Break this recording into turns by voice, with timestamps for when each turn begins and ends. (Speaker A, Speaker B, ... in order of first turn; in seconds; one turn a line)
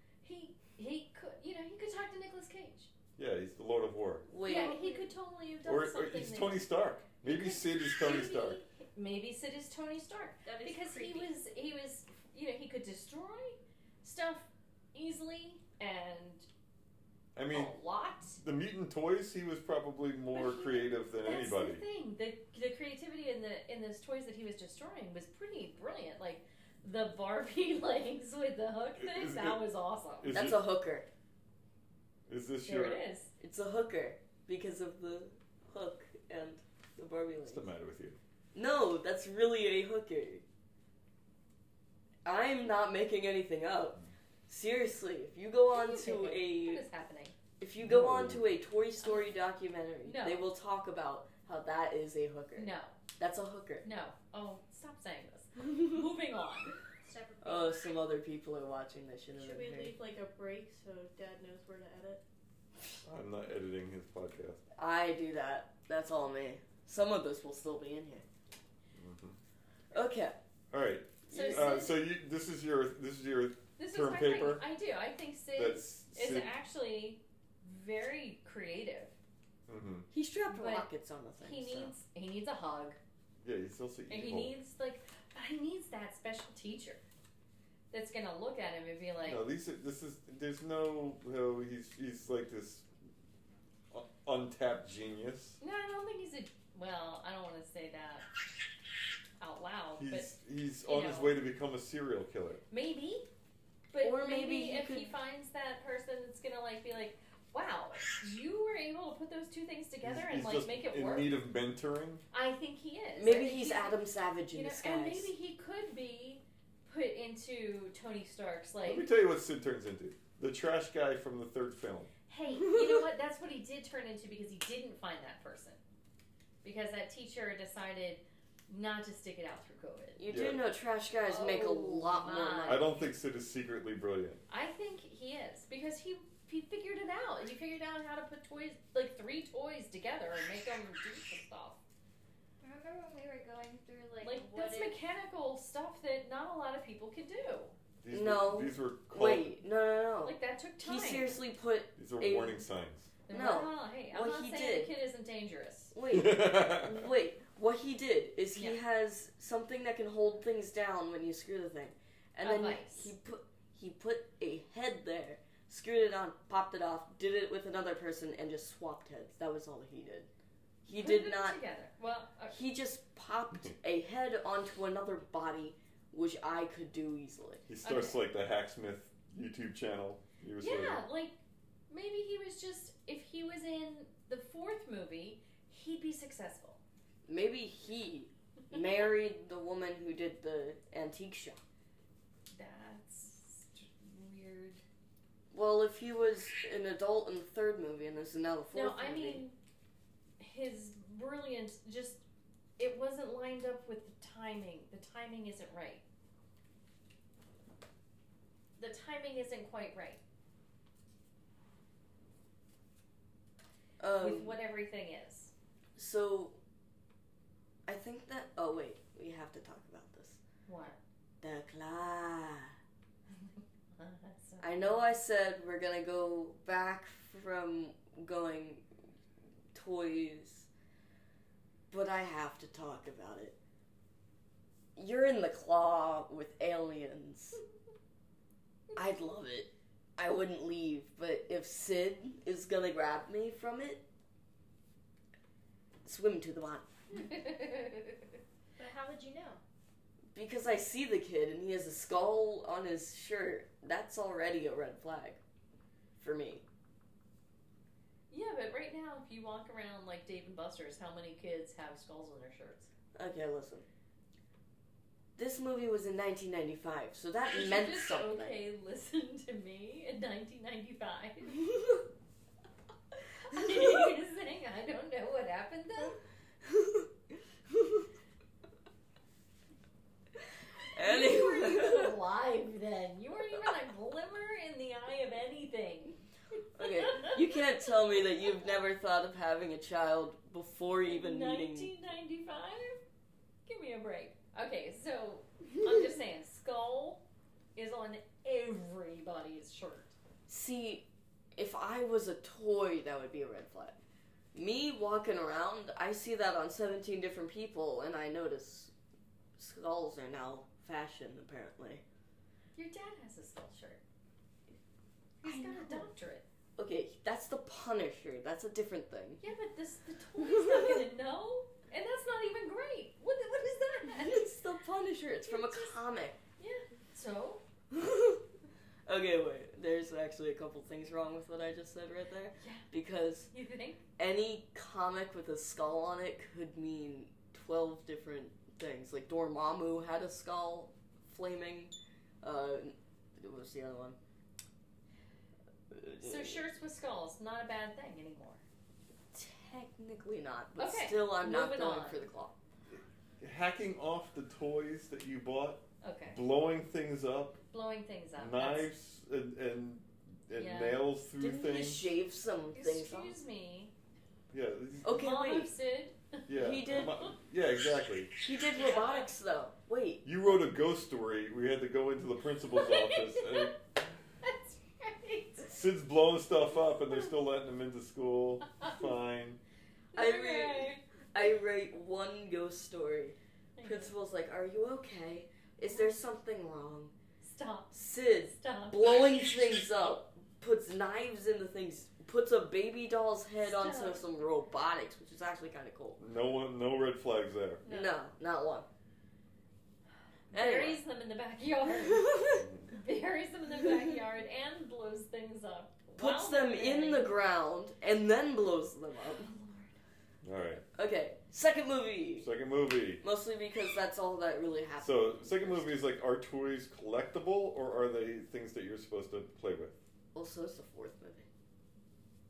Speaker A: 0.2-2.9
Speaker B: 3.2-4.3
Speaker C: 4.3-4.9
Speaker A: 4.5-6.7
Speaker D: 4.5-5.1
Speaker B: 5.6-8.6
Speaker A: 7.2-16.5
Speaker D: 10.4-11.3
Speaker B: 17.4-17.7
Speaker A: 17.5-18.4
Speaker B: 18.4-21.8
Speaker A: 20.3-30.3
Speaker B: 29.0-29.6
Speaker B: 30.2-30.6
Speaker C: 30.3-31.1
Speaker B: 32.3-33.0
Speaker A: 32.6-33.3
Speaker C: 33.4-37.7
Speaker B: 37.5-38.2
Speaker C: 38.5-40.4
Speaker C: 42.2-46.8
Speaker A: 45.7-47.4
Speaker C: 47.6-53.9
Speaker B: 47.8-48.4
Speaker A: 49.0-49.3
Speaker A: 50.0-50.5
Speaker A: 52.6-53.0
Speaker A: 53.8-56.7
Speaker D: 57.0-58.0
Speaker C: 57.4-60.0
Speaker E: 59.4-62.2
Speaker B: 63.0-64.6
Speaker C: 64.8-68.3
Speaker B: 69.0-69.4
Speaker C: 69.9-70.4
Speaker B: 70.7-74.7
Speaker C: 71.3-71.8
Speaker A: 71.3-72.0
Speaker A: 73.8-79.2
Speaker B: 75.6-76.5
Speaker B: 79.7-80.1
Speaker C: 80.1-81.9
Speaker A: 80.5-80.9
Speaker A: 81.4-83.0
Speaker B: 83.4-84.5
Speaker A: 84.1-87.0
Speaker A: 87.9-89.4
Speaker B: 89.2-92.9
Speaker B: 93.9-95.6
Speaker A: 95.6-98.3
Speaker A: 99.4-100.3
Speaker B: 100.0-102.6
Speaker A: 100.8-101.3
Speaker A: 102.7-103.3
Speaker A: 103.9-111.3
Speaker C: 104.0-105.1
Speaker B: 110.0-112.2
Speaker A: 112.3-114.0
Speaker C: 113.2-115.3
Speaker A: 114.5-119.1
Speaker B: 118.9-122.1
Speaker A: 122.3-125.8
Speaker A: 126.6-130.2
Speaker C: 130.2-132.9
Speaker B: 130.3-130.6
Speaker A: 131.2-132.9
Speaker B: 132.7-134.4
Speaker A: 134.5-141.8
Speaker D: 142.6-145.0
Speaker A: 144.2-147.8
Speaker B: 148.0-149.5
Speaker C: 148.1-152.6
Speaker A: 150.2-151.4
Speaker B: 152.0-153.1
Speaker A: 153.3-155.9
Speaker C: 153.3-154.9
Speaker C: 155.9-170.3
Speaker B: 156.1-157.1
Speaker A: 162.4-163.1
Speaker C: 170.8-171.6
Speaker A: 170.9-172.6
Speaker C: 172.5-177.6
Speaker B: 177.7-181.0
Speaker A: 177.8-178.2
Speaker A: 180.6-181.4
Speaker A: 181.9-186.8
Speaker C: 187.3-191.6
Speaker A: 192.5-194.8
Speaker C: 195.5-199.4
Speaker A: 198.7-199.6
Speaker A: 200.4-202.2
Speaker A: 202.8-206.0
Speaker A: 208.8-210.2
Speaker C: 214.0-214.6
Speaker A: 214.2-215.5
Speaker C: 216.0-216.6
Speaker C: 217.9-220.4
Speaker A: 220.7-221.0
Speaker C: 221.4-222.8
Speaker A: 223.9-225.0
Speaker C: 224.6-228.8
Speaker C: 229.7-230.7
Speaker C: 231.9-233.6
Speaker C: 235.0-237.6
Speaker C: 238.9-244.1
Speaker C: 246.1-246.9
Speaker A: 247.1-248.1
Speaker D: 248.8-249.6
Speaker C: 250.3-255.4
Speaker C: 256.2-256.6
Speaker A: 258.3-262.9
Speaker C: 263.1-263.9
Speaker C: 265.4-268.6
Speaker A: 267.5-271.6
Speaker A: 273.4-276.2
Speaker C: 276.6-277.1
Speaker C: 277.7-278.1
Speaker C: 280.9-282.2
Speaker A: 281.0-286.2
Speaker C: 286.8-291.9
Speaker A: 286.8-287.4
Speaker A: 291.1-293.0
Speaker A: 293.7-297.2
Speaker A: 297.8-300.1
Speaker C: 300.5-304.0
Speaker C: 304.5-308.9
Speaker C: 309.6-312.0
Speaker A: 312.8-314.0
Speaker A: 315.4-316.4
Speaker C: 315.4-316.1
Speaker C: 316.8-319.4
Speaker A: 319.4-324.5
Speaker C: 320.4-321.0
Speaker C: 324.1-326.4
Speaker A: 325.5-326.0
Speaker A: 326.6-327.6
Speaker C: 327.9-328.4
Speaker C: 329.1-333.5
Speaker A: 332.6-332.9
Speaker A: 333.5-334.0
Speaker C: 334.2-344.2
Speaker C: 345.9-346.6
Speaker A: 346.2-348.6
Speaker C: 349.3-352.5
Speaker A: 350.8-352.3
Speaker B: 352.9-357.6
Speaker A: 356.0-356.4
Speaker A: 357.7-358.9
Speaker B: 358.4-362.1
Speaker A: 360.6-361.0
Speaker C: 361.4-363.4
Speaker A: 362.7-363.9
Speaker B: 364.5-365.2
Speaker C: 365.0-365.7
Speaker A: 365.1-366.4
Speaker B: 366.5-368.3
Speaker C: 366.5-367.2
Speaker A: 367.0-367.3
Speaker C: 368.4-370.3
Speaker A: 368.7-369.3
Speaker B: 370.2-373.7
Speaker A: 372.7-373.7
Speaker A: 374.4-375.8
Speaker B: 375.7-379.6
Speaker A: 380.1-381.0
Speaker C: 380.1-387.1
Speaker A: 383.8-384.1
Speaker A: 387.4-389.4
Speaker C: 387.9-396.2
Speaker A: 393.6-394.2
Speaker B: 396.2-397.8
Speaker A: 397.8-398.2
Speaker C: 397.9-398.9
Speaker A: 400.5-407.4
Speaker C: 400.5-401.0
Speaker C: 402.1-402.6
Speaker B: 402.6-402.9
Speaker C: 406.2-409.5
Speaker A: 409.2-409.9
Speaker B: 410.4-410.9
Speaker C: 410.9-412.5
Speaker B: 412.4-413.2
Speaker C: 413.2-415.9
Speaker B: 415.0-420.0
Speaker C: 420.3-421.5